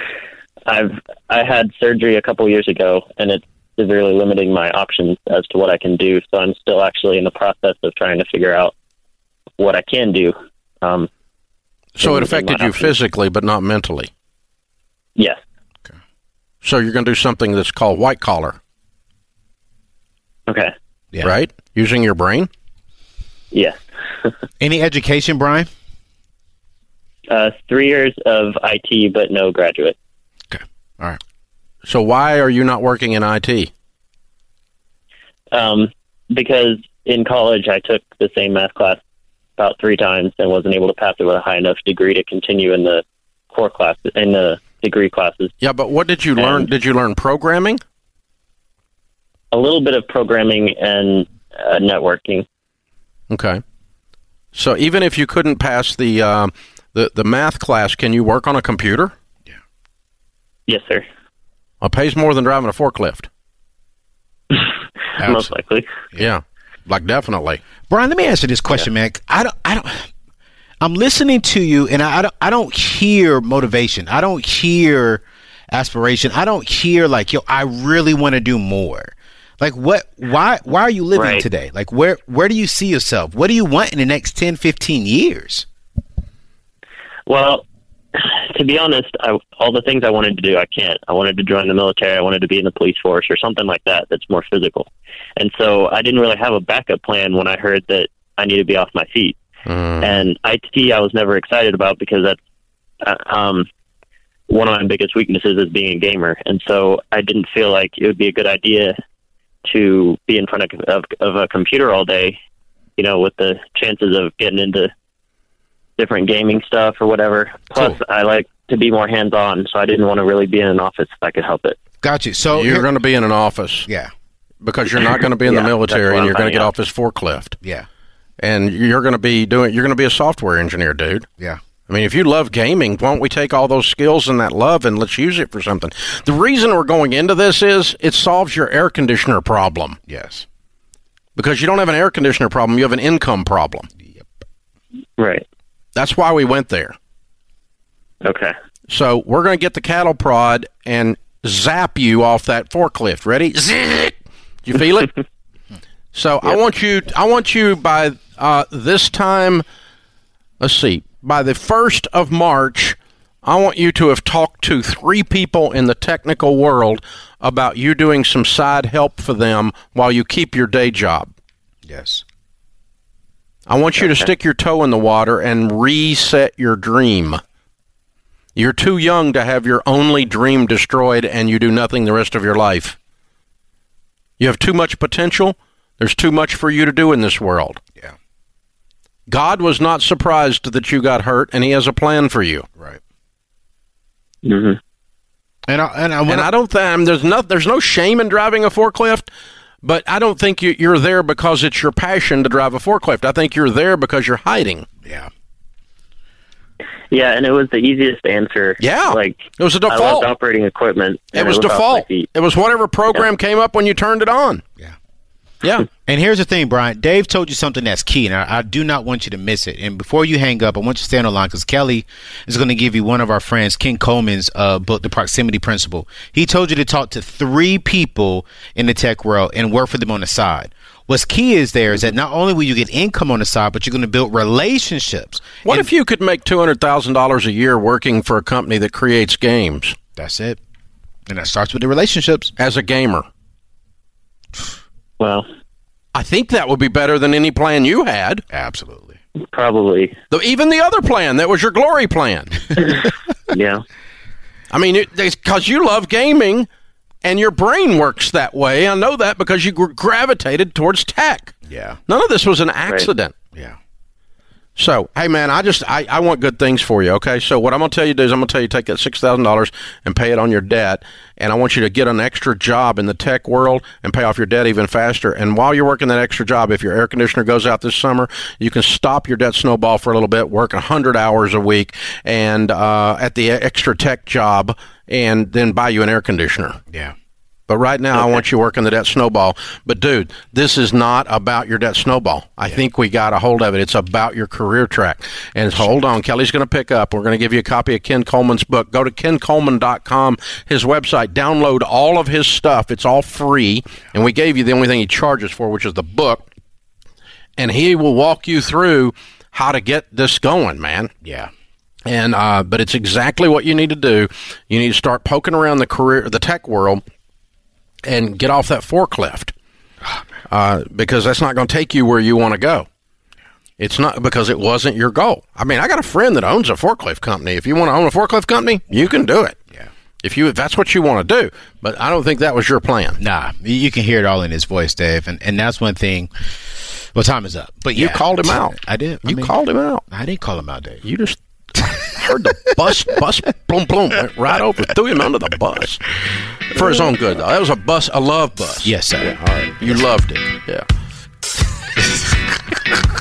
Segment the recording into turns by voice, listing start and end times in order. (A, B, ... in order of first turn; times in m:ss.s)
0:00.7-0:08.7 A
0:09.6-0:11.1 A
0:12.0-0:14.1 B
0:12.0-0:12.9 A
0:16.6-0:18.6 B
0:21.2-0:22.5 B
0:23.5-0:24.3 A
0:24.6-0:25.7 C
0:27.3-0:30.0 A
0:30.5-0:31.2 C
0:31.8-0:33.7 B
0:35.5-0:39.0 A
0:39.6-0:45.5 A
0:45.6-0:47.8 B
0:46.4-0:46.7 A
0:49.5-0:52.4 A
0:53.3-0:53.6 B
0:54.5-0:59.1 B
1:00.7-1:01.1 A
1:01.8-1:03.3 B
1:04.5-1:05.9 A
1:05.2-1:05.5 C
1:06.2-1:07.6 B
1:07.9-1:10.1 C
1:10.8-1:25.7 C
1:21.2-1:21.5 A
1:27.3-1:39.4 A
1:39.7-1:40.2 B
1:40.0-1:42.4 A
1:43.0-1:43.7 A
1:44.5-1:48.9 A
1:49.7-1:52.4 A
1:53.0-1:54.9 A
1:56.0-2:01.8 A
2:02.0-2:02.9 C
2:02.5-2:03.9 B
2:04.6-2:07.5 B
2:05.4-2:06.7 A
2:08.4-2:11.3 B
2:11.9-2:20.0 B
2:20.1-2:20.4 C
2:21.4-2:23.9 B
2:25.2-2:25.4 A
2:26.0-2:27.0 B
2:28.2-2:28.5 A
2:28.9-2:35.2 B
2:36.1-2:39.6 B
2:40.6-2:51.3 B
2:51.9-2:52.2 C
2:53.7-2:57.4 B
2:54.0-2:54.3 A
2:58.6-3:03.0 B
3:04.4-3:07.8 B
3:09.3-3:12.6 B
3:14.4-3:14.8 A
3:15.7-3:16.5 C
3:16.3-3:19.3 B
3:19.8-3:24.9 B
3:27.1-3:32.3 A
3:28.8-3:30.3 B
3:31.3-3:34.6 B
3:35.6-3:35.9 B
3:36.1-3:55.9 C
3:55.6-4:00.0 B
4:00.2-4:00.6 C
4:01.3-4:02.5 C
4:02.6-4:03.3 B
4:05.2-4:05.5 A
4:06.1-4:08.4 B
4:08.5-4:09.2 C
4:09.5-4:10.2 A
4:10.3-4:12.8 B
4:12.8-4:13.8 A
4:14.7-4:16.7 B
4:17.2-4:21.5 B
4:21.7-4:22.0 C
4:22.1-4:23.3 B
4:24.8-4:46.8 B
4:47.7-5:06.5 B
5:07.6-5:11.1 B
5:11.2-5:11.5 C
5:12.1-5:17.0 B
5:18.0-5:19.5 B
5:20.5-5:22.9 B
5:23.8-5:29.6 B
5:30.2-5:33.2 B
5:33.2-5:39.6 C
5:38.0-5:40.0 B
5:40.1-5:41.0 C
5:41.0-5:46.1 B
5:46.7-5:50.8 B
5:48.8-5:50.1 C